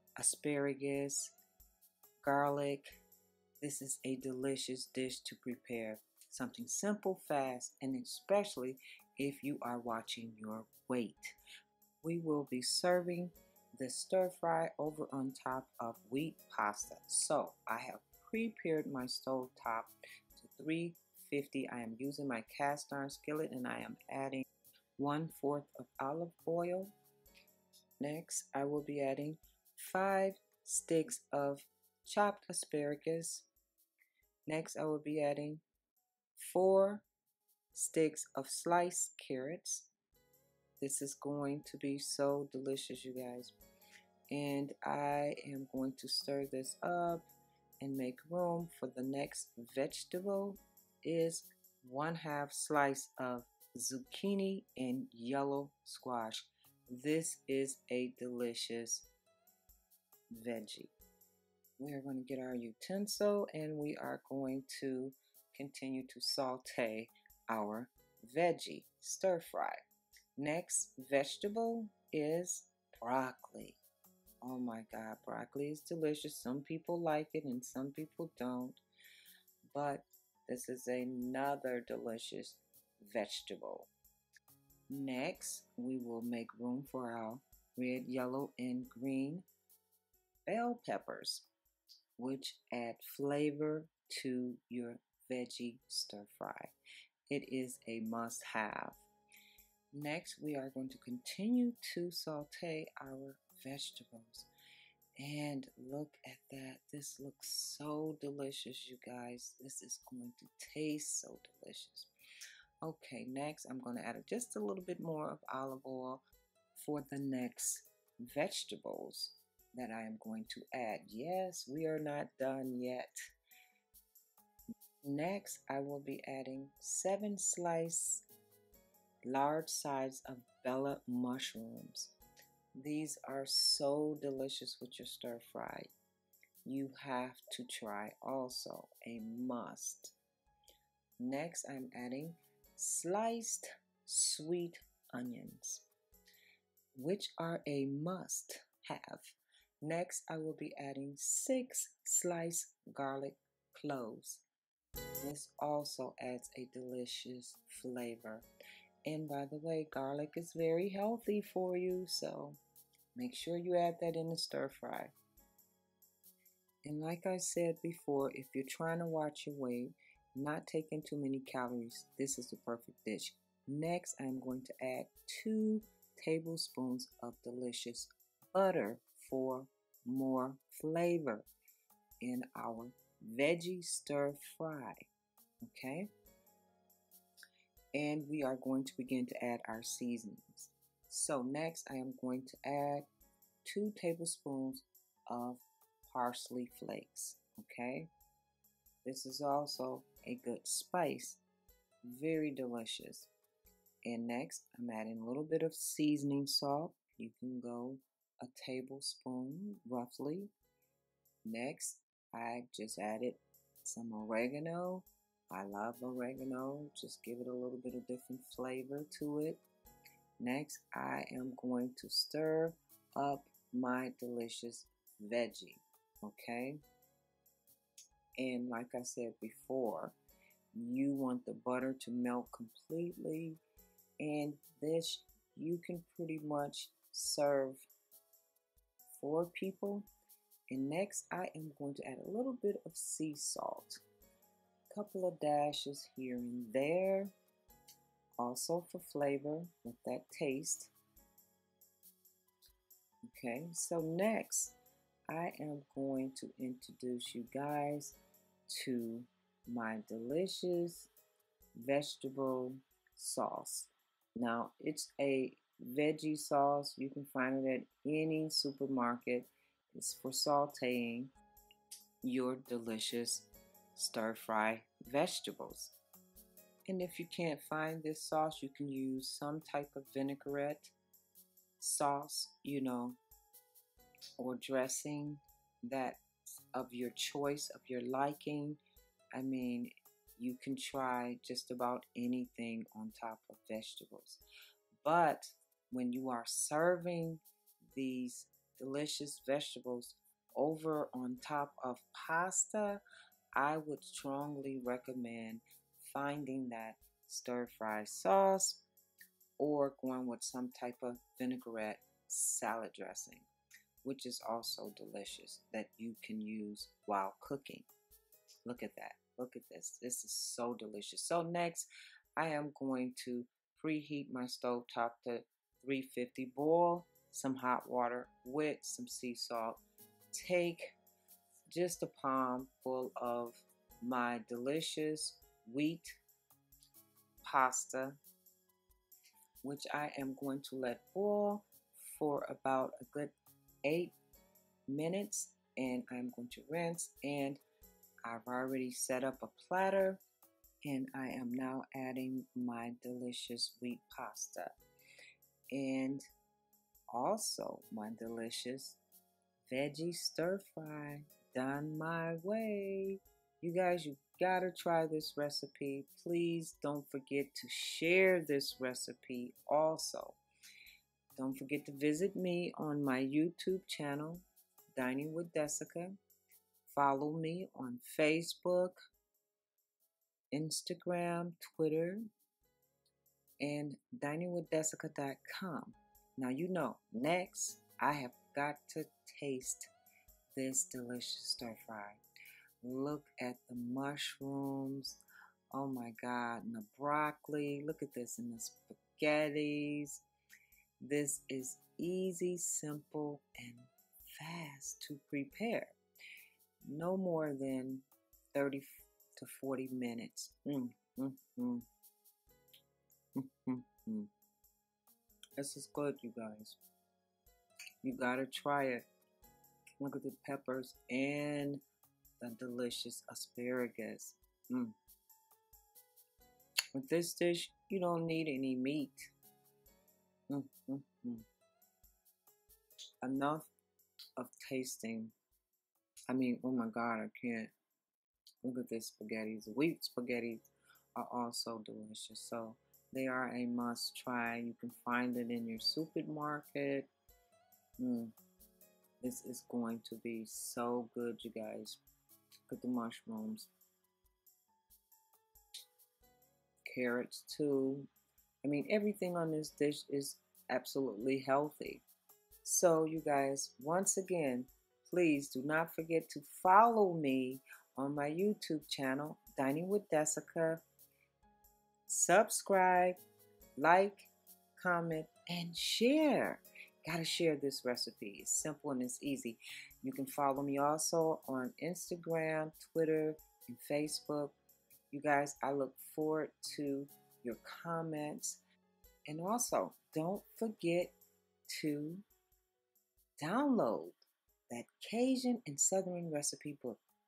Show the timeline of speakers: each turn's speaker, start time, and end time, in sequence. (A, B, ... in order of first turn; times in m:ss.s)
0:00.2-0:01.4 A
0:02.2-0:03.0 A
0:03.6-0:11.4 A
0:12.0-0:24.4 A
0:25.0-0:26.9 A
0:28.0-0:33.5 A
0:34.5-0:35.6 A
0:36.4-0:37.0 A
0:37.7-0:39.9 A
0:40.8-0:43.5 A
0:44.3-0:47.2 A
0:47.8-0:59.1 A
1:00.3-1:00.9 A
1:01.8-1:09.8 A
1:10.4-1:13.8 A
1:14.4-1:18.8 A
1:19.6-1:23.9 A
1:24.9-1:29.4 A
1:30.5-1:31.5 A
1:32.2-1:36.7 A
1:37.3-1:39.0 A
1:39.9-1:44.5 A
1:45.2-1:52.1 A
1:52.8-1:56.2 A
1:56.7-2:03.1 A
2:05.0-2:08.2 A
2:09.3-2:12.1 A
2:12.7-2:15.9 A
2:16.6-2:20.1 A
2:21.2-2:25.8 A
2:26.9-2:34.4 A
2:35.2-2:38.4 A
2:39.0-2:42.6 A
2:43.1-2:45.1 A
2:46.8-3:01.4 A
3:02.2-3:05.0 A
3:05.6-3:06.1 A
3:07.9-3:13.1 A
3:13.6-3:18.1 A
3:19.0-3:21.4 A
3:22.0-3:23.3 A
3:24.0-3:30.5 A
3:31.4-3:39.6 A
3:40.4-3:46.8 A
3:48.4-3:50.2 A
3:50.7-3:53.6 A
3:54.2-3:57.8 A
3:59.1-4:00.1 A
4:00.7-4:04.0 A
4:04.9-4:07.3 A
4:08.4-4:10.9 A
4:13.3-4:14.7 A
4:15.3-4:18.2 A
4:18.7-4:21.1 A
4:21.8-4:31.3 A
4:32.2-4:36.0 A
4:36.9-4:40.9 A
4:41.8-4:43.2 A
4:44.4-4:46.2 A
4:46.7-4:48.8 A
4:49.3-4:54.4 A
4:55.0-5:03.0 A
5:03.6-5:08.8 A
5:09.6-5:13.5 A
5:14.0-5:17.9 A
5:18.6-5:29.8 A
5:30.3-5:31.0 A
5:31.7-5:36.2 A
5:37.4-5:38.2 A
5:39.6-5:43.3 A
5:43.8-5:44.2 A
5:44.9-5:47.6 A
5:48.2-5:50.2 A
5:50.8-5:54.7 A
5:55.7-5:56.2 A
5:57.1-5:59.0 A
5:59.7-6:10.4 A
6:11.4-6:16.2 A
6:16.9-6:19.0 A
6:20.5-6:22.2 A
6:23.6-6:29.9 A
6:30.5-6:32.2 A
6:32.8-6:35.2 A
6:35.7-6:40.2 A
6:41.0-6:46.0 A
6:46.8-6:51.8 A
6:53.4-6:54.3 A
6:55.6-6:56.8 A
6:58.0-6:59.0 A
7:00.0-7:01.8 A
7:02.4-7:04.9 A
7:06.9-7:09.3 A
7:10.5-7:11.4 A
7:13.2-7:13.7 A
7:14.4-7:15.3 A
7:16.3-7:17.7 A
7:18.6-7:27.1 A
7:28.0-7:28.3 A
7:29.2-7:32.0 A
7:32.7-7:33.7 A
7:36.9-7:38.1 A
7:38.6-7:42.0 A
7:42.6-7:50.8 A
7:52.1-7:53.2 A
7:53.8-8:04.6 A
8:05.1-8:08.6 A
8:09.3-8:11.1 A
8:11.7-8:12.2 A
8:13.4-8:17.0 A